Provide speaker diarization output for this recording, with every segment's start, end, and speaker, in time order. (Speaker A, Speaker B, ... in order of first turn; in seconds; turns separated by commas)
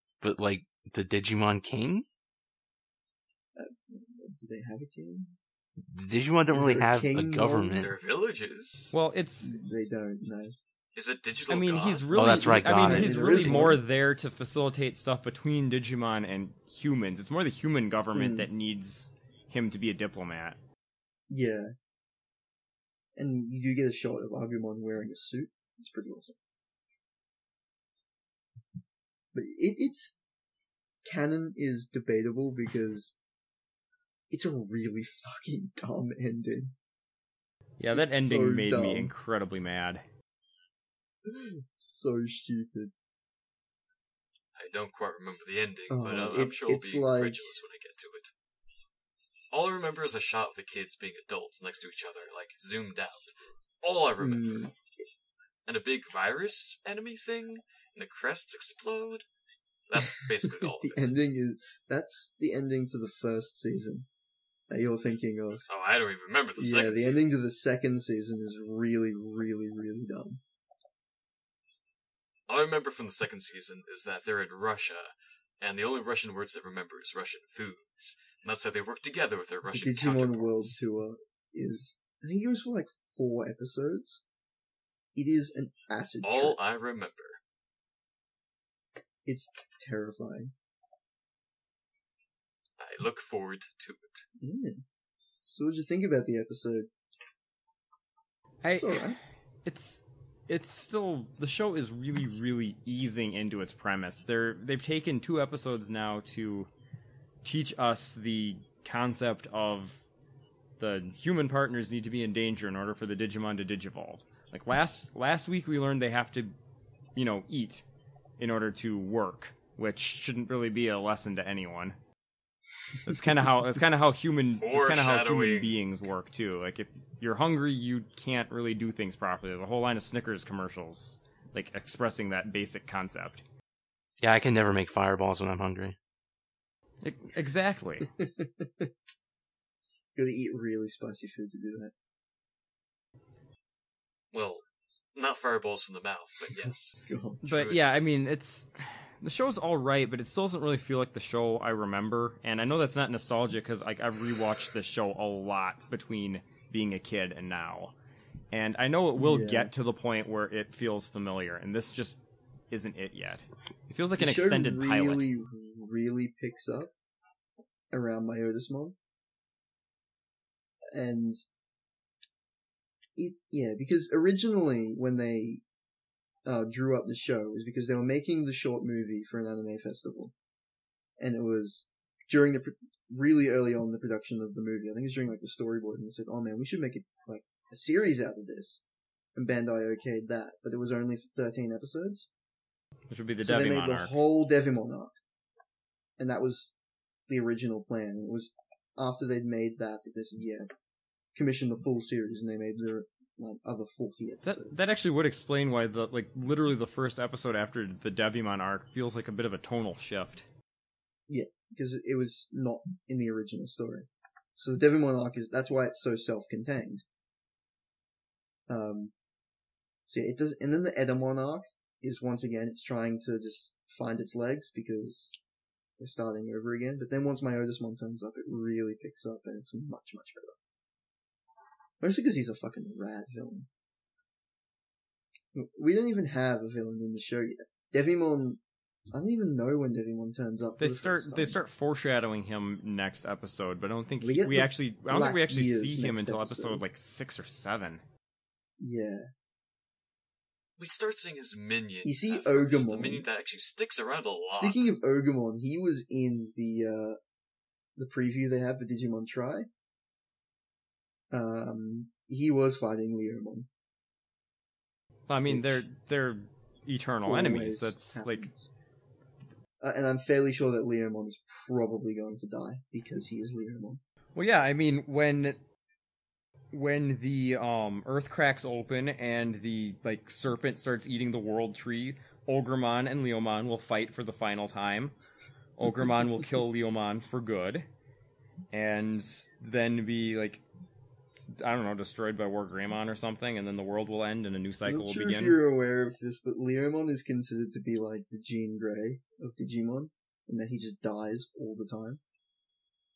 Speaker A: 0.2-2.0, Speaker B: 3.5-5.3, Speaker A: 5.9-7.9, Speaker B: 6.5-7.9, Speaker C: 7.8-8.9, Speaker D: 8.9-9.6, Speaker B: 9.4-10.5, Speaker C: 10.9-12.6, Speaker D: 11.5-20.6, Speaker A: 12.1-13.6, Speaker B: 12.7-13.8, Speaker B: 18.1-18.5, Speaker B: 21.3-21.7, Speaker B: 23.1-26.4, Speaker B: 29.3-30.2, Speaker B: 31.0-33.1, Speaker B: 34.3-36.7, Speaker D: 37.8-40.0, Speaker B: 37.9-39.1, Speaker B: 41.2-42.9, Speaker C: 44.5-48.3, Speaker B: 45.9-47.5, Speaker C: 49.5-54.5, Speaker B: 54.2-54.7, Speaker C: 55.6-59.2, Speaker C: 59.9-61.1, Speaker B: 60.0-64.1, Speaker B: 64.7-65.7, Speaker C: 65.7-67.2, Speaker B: 66.6-70.4, Speaker C: 72.5-80.8, Speaker B: 79.7-84.2, Speaker B: 85.1-86.6, Speaker C: 86.2-87.4, Speaker B: 89.2-90.5, Speaker C: 92.8-94.2, Speaker B: 94.4-94.8, Speaker B: 95.5-96.9, Speaker D: 98.6-99.1, Speaker B: 98.7-99.2, Speaker D: 99.6-106.7, Speaker D: 107.4-110.0, Speaker D: 110.8-116.5, Speaker D: 117.1-117.8, Speaker D: 118.4-122.0, Speaker D: 123.0-133.4, Speaker C: 124.5-125.8, Speaker A: 134.2-135.9, Speaker D: 137.0-138.1, Speaker B: 138.2-138.9, Speaker B: 140.1-141.9, Speaker C: 144.3-147.9, Speaker B: 147.0-147.4, Speaker D: 147.4-157.9, Speaker D: 158.5-165.3, Speaker B: 159.2-159.7, Speaker B: 164.2-166.9, Speaker B: 167.9-168.9, Speaker B: 170.9-171.4, Speaker B: 173.2-175.6, Speaker B: 176.4-180.3, Speaker B: 181.2-188.8, Speaker B: 189.3-192.3, Speaker D: 193.1-194.2, Speaker B: 193.4-195.1, Speaker B: 196.2-196.7, Speaker B: 197.3-200.7, Speaker B: 201.3-204.8, Speaker D: 204.4-210.4, Speaker B: 211.3-217.0, Speaker B: 218.7-219.1, Speaker B: 220.1-225.4, Speaker B: 226.0-230.6, Speaker B: 232.0-233.7, Speaker B: 235.5-241.6, Speaker D: 240.8-248.0, Speaker B: 244.2-246.8, Speaker B: 248.8-249.2, Speaker C: 250.8-254.9, Speaker B: 252.0-253.2, Speaker B: 254.6-257.2, Speaker B: 257.9-259.7, Speaker B: 261.3-263.7, Speaker D: 265.3-268.5, Speaker B: 265.4-265.8, Speaker B: 267.2-268.7, Speaker B: 269.8-274.0, Speaker D: 274.3-275.6, Speaker D: 276.7-285.1, Speaker D: 285.8-287.9, Speaker D: 288.7-290.6, Speaker D: 291.5-295.6, Speaker B: 294.8-302.2